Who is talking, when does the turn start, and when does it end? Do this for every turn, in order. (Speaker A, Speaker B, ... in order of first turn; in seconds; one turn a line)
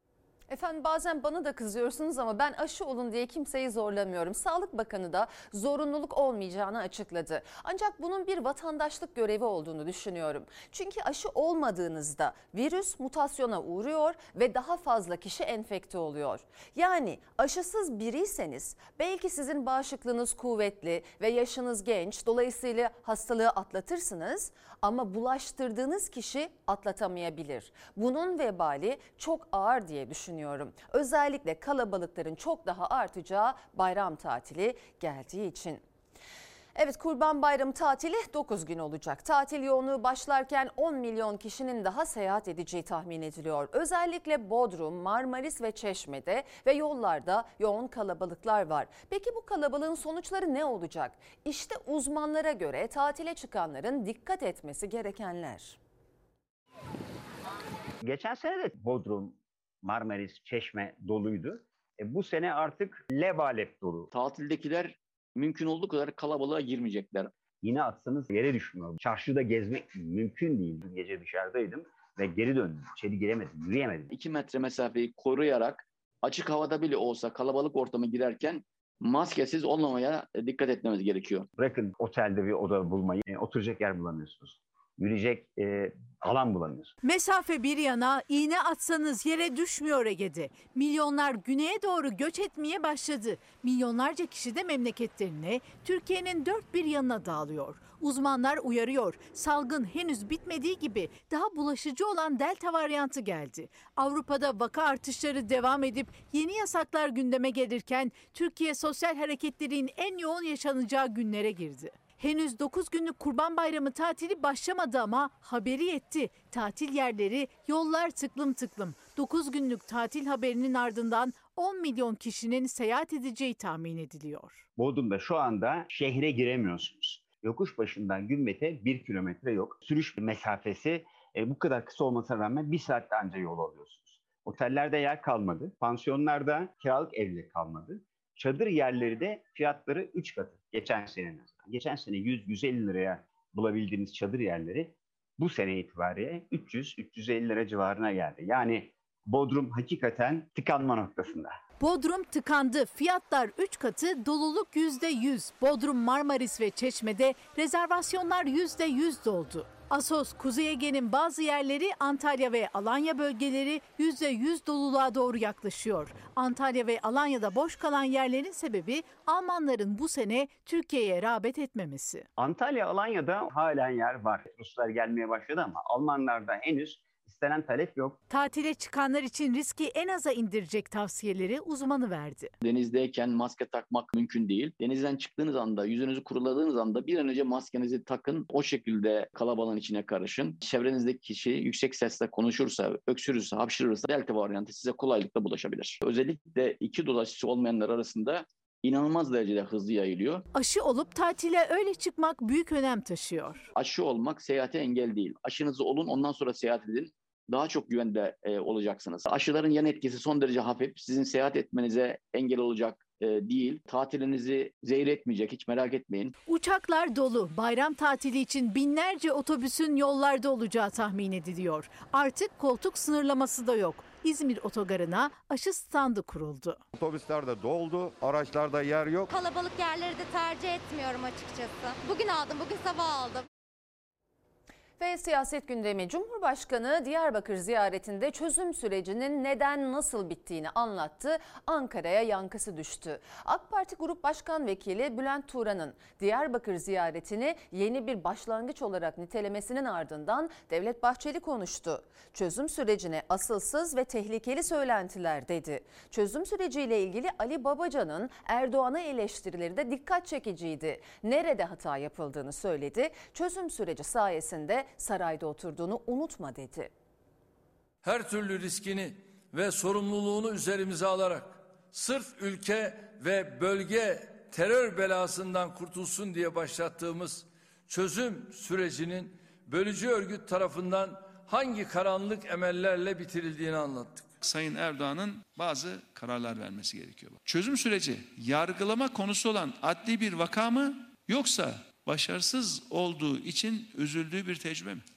Speaker A: 0.5-35.8
Speaker A: 36.7-55.8
Speaker B: 58.0-64.1
Speaker C: 64.1-67.3
Speaker B: 67.6-74.1
Speaker C: 74.1-81.5
Speaker B: 81.6-86.9
Speaker D: 87.0-124.6
Speaker B: 124.8-151.6
Speaker D: 151.8-172.3
Speaker B: 172.4-178.2
Speaker D: 178.3-182.5
Speaker C: 182.6-200.4
Speaker D: 200.5-203.7
Speaker C: 203.7-216.3
Speaker D: 216.4-226.8
Speaker E: 226.9-229.3
Speaker F: 229.3-233.4
Speaker A: 235.0-266.9
Speaker G: 268.0-284.3
Speaker H: 284.4-295.1